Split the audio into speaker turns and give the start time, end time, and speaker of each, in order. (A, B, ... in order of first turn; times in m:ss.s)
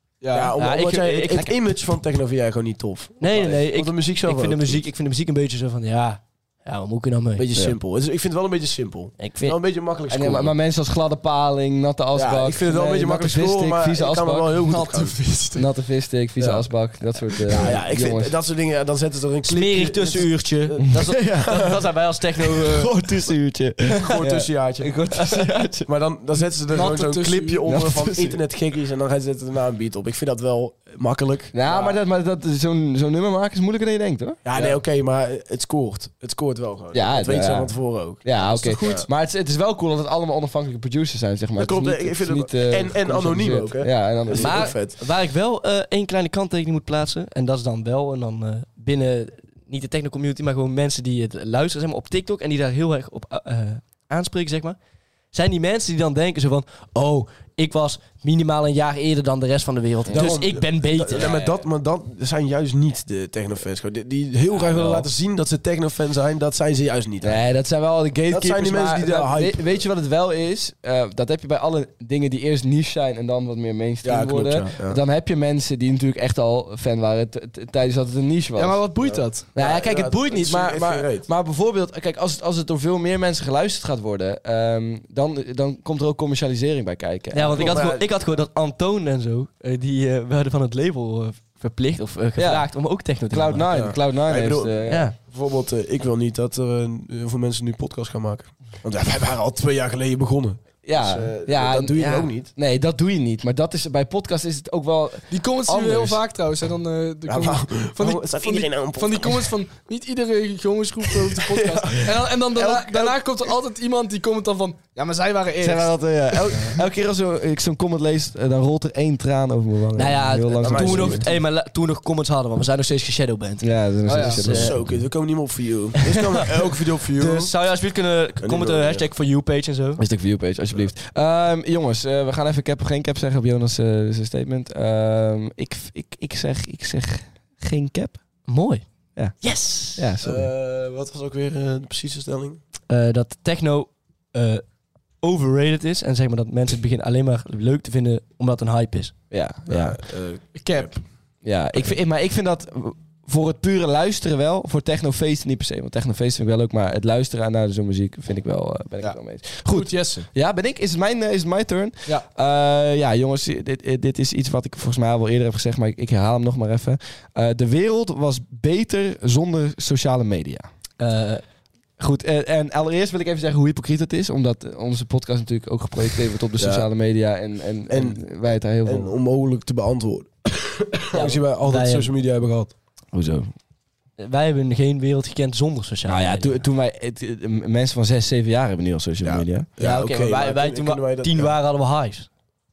0:00.2-0:00.6 A
0:00.3-0:04.8 B
0:00.6-0:01.6 C
0:03.2-0:07.5 C
0:07.4-0:10.5 B
0:09.2-0:09.6 C
0:10.1-0:14.8 D
0:12.1-0:15.3 B
0:14.6-0:15.6 A
0:15.5-0:18.3 D
0:16.4-0:16.7 B
0:17.3-0:21.6 B
0:19.4-0:23.0 C
0:20.9-0:21.7 D
0:22.5-0:25.9 D
0:23.9-0:32.0 B
0:26.7-0:27.6 A
0:27.6-0:28.4 D
0:31.5-0:34.8 D
0:34.4-0:39.1 B
0:36.9-0:44.7 D
0:38.4-0:39.0 A
0:41.6-0:45.0 B
0:44.3-0:54.8 C
0:55.3-1:01.6 C
1:00.0-1:00.4 D
1:00.1-1:07.4 B
1:04.5-1:05.1 D
1:07.2-1:18.9 D
1:08.3-1:09.7 B
1:14.0-1:15.0 B
1:18.6-1:19.6 A
1:19.0-1:21.3 B
1:19.5-1:27.8 D
1:27.3-1:33.9 C
1:27.5-1:28.1 B
1:32.4-1:35.1 D
1:33.7-1:42.5 B
1:34.8-1:35.1 C
1:40.8-1:46.2 D
1:45.3-1:56.8 A
1:47.2-1:49.5 B
1:51.3-1:53.2 B
1:55.6-2:01.3 D
1:59.9-2:04.8 C
2:00.6-2:01.4 B
2:03.6-2:05.0 D
2:04.0-2:04.5 A
2:04.4-2:07.5 B
2:06.0-2:10.0 C
2:08.4-2:09.0 B
2:10.0-2:18.2 D
2:18.5-2:18.8 C
2:19.2-2:20.5 D
2:19.4-2:20.1 C
2:20.2-2:22.6 B
2:22.9-2:24.6 C
2:25.2-2:29.2 C
2:29.3-2:30.0 D
2:29.7-2:31.0 B
2:30.5-2:31.0 A
2:31.4-2:50.7 D
2:39.0-2:40.3 A
2:51.0-2:51.4 C
2:52.0-2:59.1 D
2:56.6-2:56.9 B
2:57.9-3:02.7 B
3:01.1-3:02.1 C
3:03.1-3:03.5 D
3:04.2-3:06.6 C
3:06.0-3:09.7 D
3:09.2-3:11.5 B
3:09.8-3:12.3 C